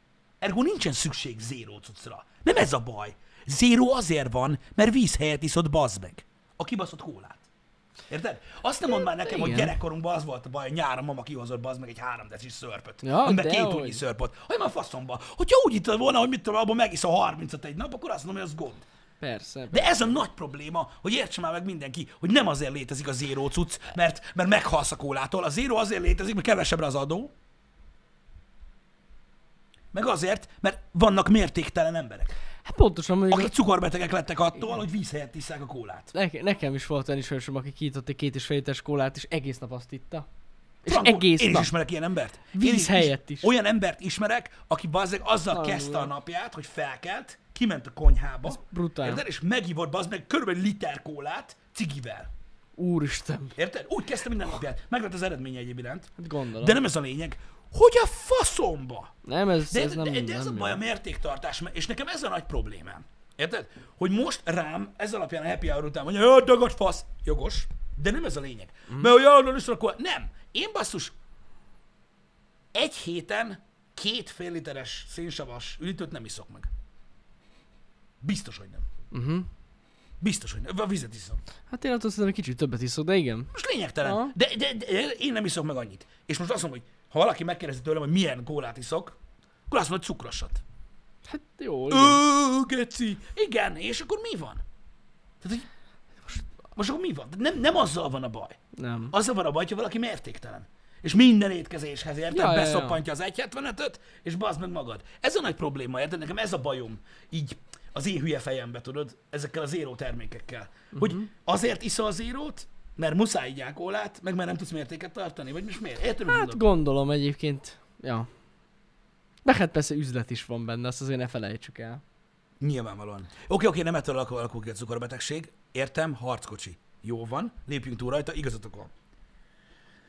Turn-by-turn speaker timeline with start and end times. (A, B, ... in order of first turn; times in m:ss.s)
0:00.4-0:07.5 A
0:08.1-0:18.8 A
0:09.0-0:09.7 B
0:13.0-0:14.0 B
0:19.2-0:20.1 B
0:19.7-0:27.3 A
0:29.9-0:32.4 A
0:32.6-0:33.5 B
0:33.3-0:36.1 A
0:36.1-0:40.2 B
0:40.8-0:41.7 B
0:40.9-0:52.3 A
0:42.5-0:43.5 B
0:45.5-0:46.1 B
0:48.4-0:49.2 B
0:52.8-0:53.6 B
0:53.6-0:59.1 A
0:56.2-0:56.8 B
0:59.2-1:00.8 B
0:59.7-1:11.1 A
1:12.7-1:16.7 A
1:18.2-1:18.9 A
1:19.1-1:19.5 B
1:20.2-1:21.4 A
1:21.7-1:23.5 B
1:23.5-1:29.2 A
1:24.0-1:24.4 B
1:29.7-1:30.6 A
1:31.3-1:32.2 B
1:31.9-1:34.6 A
1:35.4-1:35.7 A
1:36.7-1:38.6 A
1:38.8-1:39.1 B
1:39.1-1:56.6 A
1:42.3-1:43.0 B
1:50.9-1:51.3 B
1:56.3-1:58.3 B
1:59.4-2:02.0 B
2:02.6-2:08.9 A